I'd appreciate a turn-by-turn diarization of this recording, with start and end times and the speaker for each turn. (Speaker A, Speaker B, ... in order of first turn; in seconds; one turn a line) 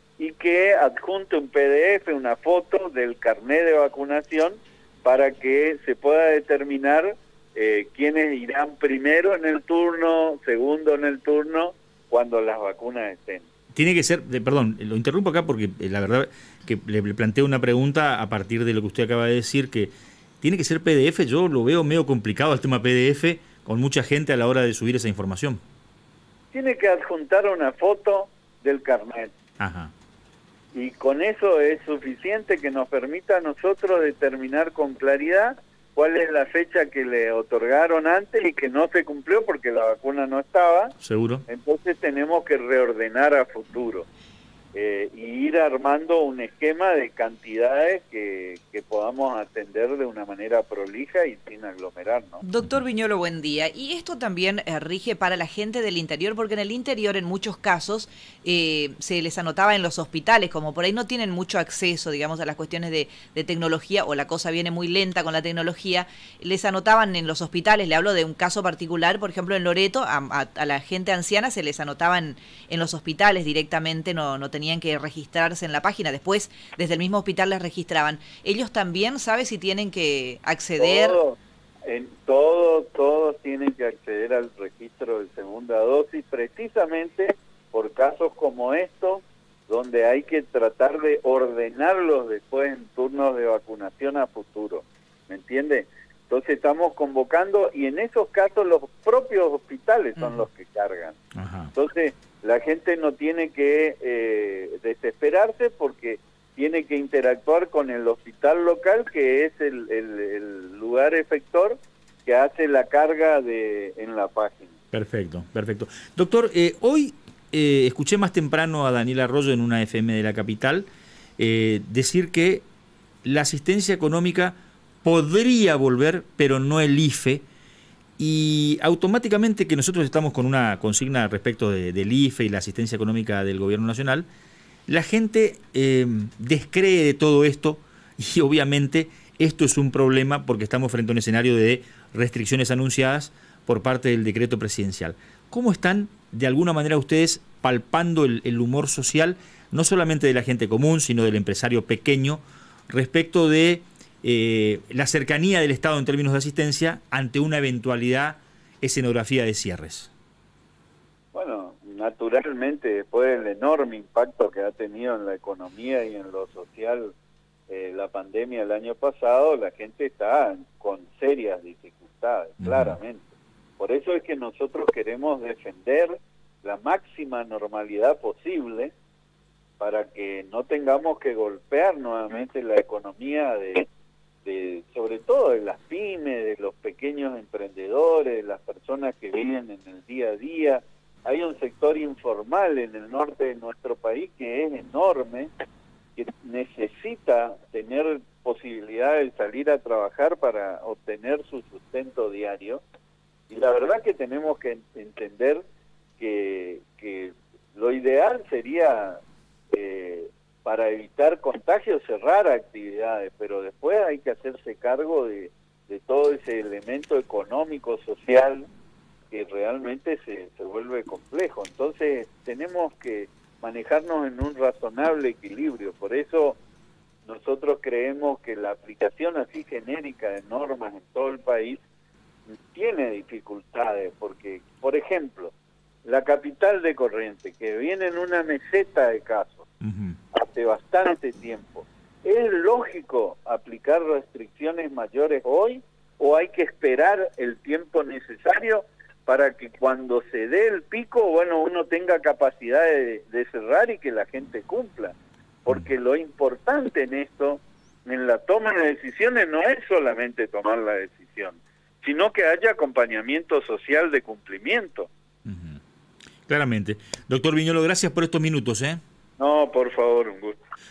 Speaker A: 0.2-13.5
Speaker B: 13.8-25.6
Speaker A: 26.5-29.4
Speaker B: 29.6-29.9
Speaker A: 30.7-44.1
Speaker B: 41.0-41.5
Speaker A: 44.7-52.4
Speaker C: 52.4-81.2
Speaker A: 80.8-101.2
Speaker C: 100.2-100.5
Speaker B: 101.3-101.7
Speaker A: 101.7-114.8
Speaker B: 114.9-120.9
Speaker B: 121.4-122.6
Speaker B: 123.2-127.5
Speaker B: 128.2-134.3
Speaker B: 134.9-160.1
Speaker A: 161.3-167.1
Speaker A: 167.7-178.9
Speaker B: 172.6-173.0
Speaker A: 179.8-183.9
Speaker A: 184.4-195.5
Speaker A: 196.2-202.8
Speaker A: 203.5-205.6
Speaker A: 206.2-209.2
Speaker A: 209.7-218.7
Speaker A: 219.3-226.6
Speaker A: 227.2-231.8
Speaker A: 232.7-235.5
Speaker A: 236.1-239.7
Speaker B: 239.8-240.2
Speaker A: 240.3-265.1
Speaker B: 265.5-265.8
Speaker B: 266.5-269.0
Speaker A: 269.4-270.6